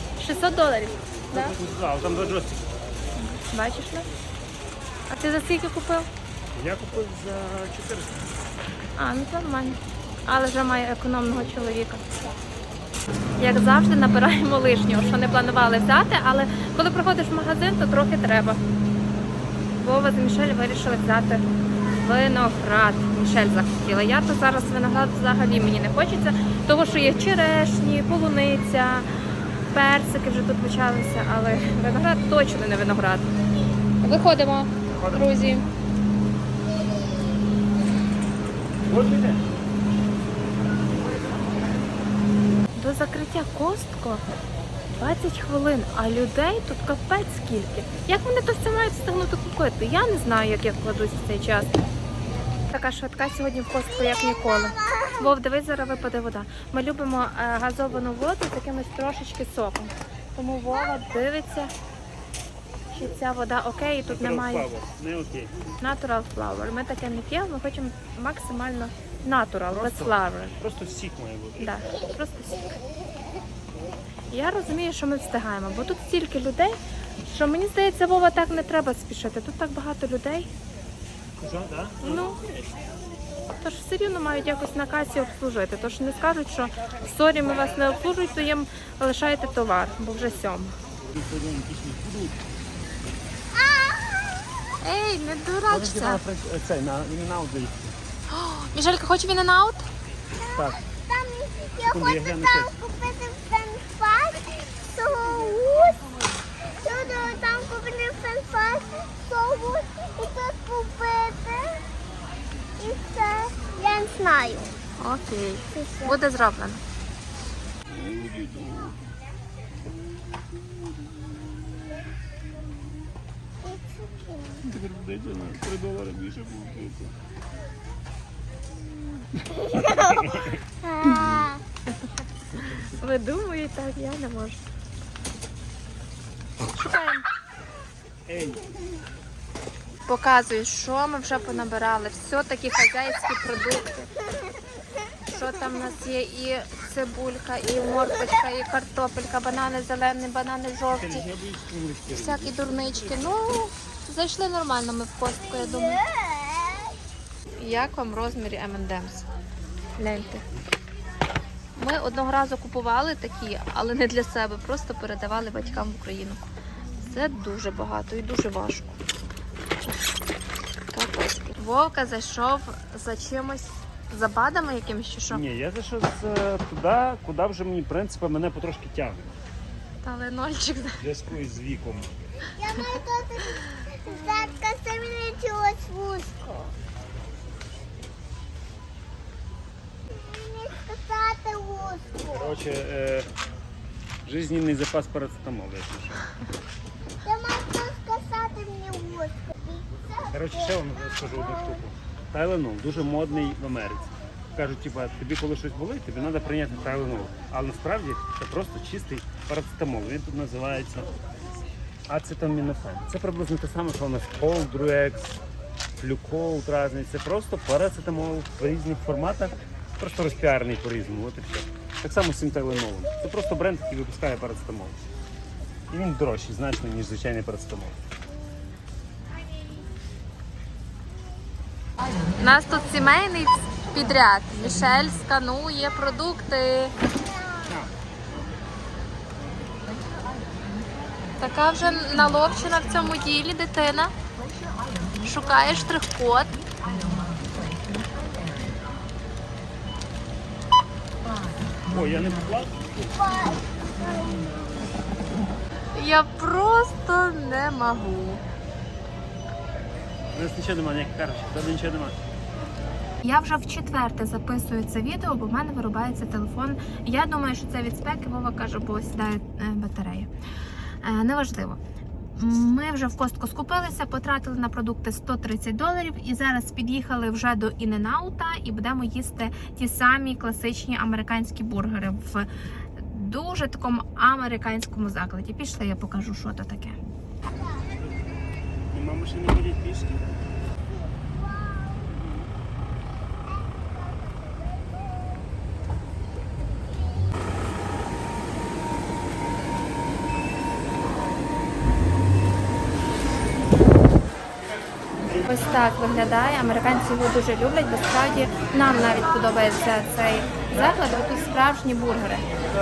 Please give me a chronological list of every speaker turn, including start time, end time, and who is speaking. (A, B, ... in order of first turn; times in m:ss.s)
0:00.2-0:01.6 A
0:01.3-0:02.6 B
0:03.2-0:04.1 A
0:05.1-0:06.1 A
0:06.6-0:08.2 B
0:09.0-0:12.0 A
0:13.4-0:18.6 A
0:19.8-0:21.4 A
0:22.0-0:29.1 A
0:29.7-0:33.3 A
0:34.0-0:35.6 A
0:35.0-0:35.2 B
0:38.9-0:39.4 B
0:42.8-0:44.2 A
0:44.9-0:51.7 A
0:52.7-1:01.7 A
0:54.1-0:55.4 C
1:02.9-1:04.7 A
1:04.1-1:05.5 B
1:05.8-1:10.6 A
1:09.7-1:12.0 B
1:11.6-1:12.7 A
1:14.3-1:20.5 A
1:21.4-1:22.4 B
1:22.0-1:22.4 A
1:23.6-1:30.8 A
1:31.0-1:32.4 B
1:33.5-1:34.6 C
1:34.8-1:36.2 A
1:35.7-1:38.0 B
1:38.3-1:39.9 A
1:40.4-1:40.8 B
1:40.4-1:46.0 C
1:41.8-1:42.7 B
1:46.8-1:51.8 C
1:52.8-1:54.7 C
1:55.0-1:56.8 A
1:55.7-1:56.2 C
1:57.9-1:59.0 B
2:03.6-2:04.7 C
2:04.6-2:07.1 B
2:09.4-2:10.6 B
2:10.8-2:11.6 C
2:11.1-2:11.4 A
2:12.6-2:14.6 A
2:16.7-2:17.3 A
2:18.3-2:18.6 B
2:20.1-2:24.1 A
2:25.2-2:31.3 A
2:30.9-2:33.2 B
2:32.1-2:36.0 A
2:35.4-2:37.0 C
2:37.6-2:39.3 A
2:40.0-2:40.4 A
2:41.8-2:46.4 A
2:47.0-2:49.0 A
2:50.9-2:55.4 A
2:55.3-2:59.3 B
3:00.0-3:01.0 A
3:01.0-3:02.1 B
3:02.6-3:06.7 C
3:10.1-3:12.6 C
3:12.3-3:13.3 B
3:14.2-3:16.3 B
3:17.2-3:21.8 C
3:20.3-3:31.1 B
3:32.1-3:35.4 B
3:36.0-3:45.0 B
3:45.9-3:48.0 B
3:52.4-3:56.9 A
3:57.6-3:57.9 B
4:01.4-4:04.2 A
4:05.1-4:06.7 A
4:11.8-4:13.1 B
4:13.1-4:14.8 C
4:15.9-4:18.4 A
4:20.3-4:22.2 B
4:23.2-4:30.3 A
4:31.0-4:31.8 A
4:32.4-4:47.0 A
4:48.9-4:50.2 B
4:50.9-4:52.5 C
4:53.5-4:55.3 C
5:05.4-5:12.5 A